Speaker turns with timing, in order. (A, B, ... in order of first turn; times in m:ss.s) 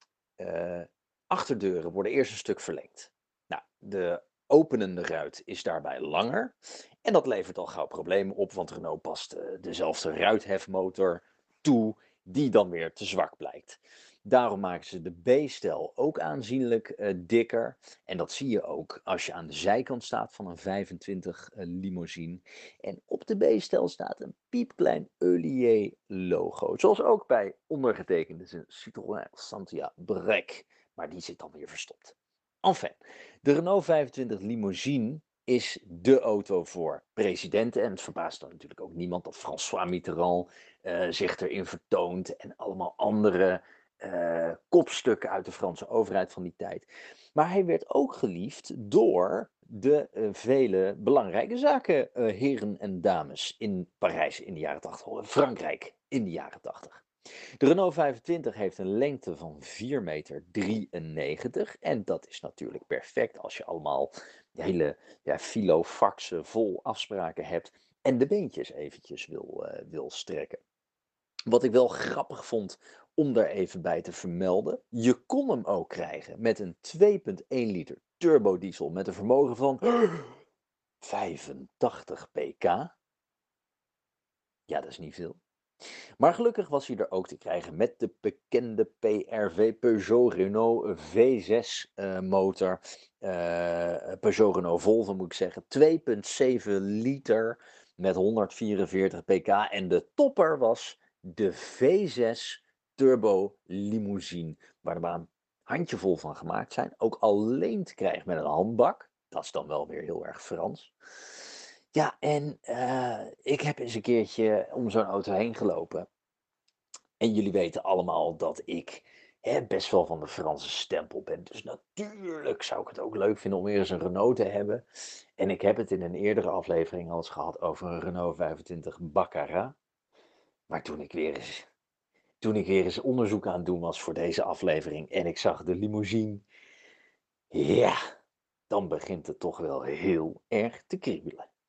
0:00.4-0:57.0 A
0:57.6-1:10.6 A
1:11.4-1:20.4 A
1:21.0-1:22.9 A
1:24.7-1:25.4 A
1:26.2-1:50.9 A
1:51.9-1:56.1 A
1:57.2-2:04.8 A
2:05.4-2:09.7 A
2:10.7-2:11.6 A
2:12.4-2:16.4 A
2:17.5-2:18.0 A
2:18.7-2:21.5 A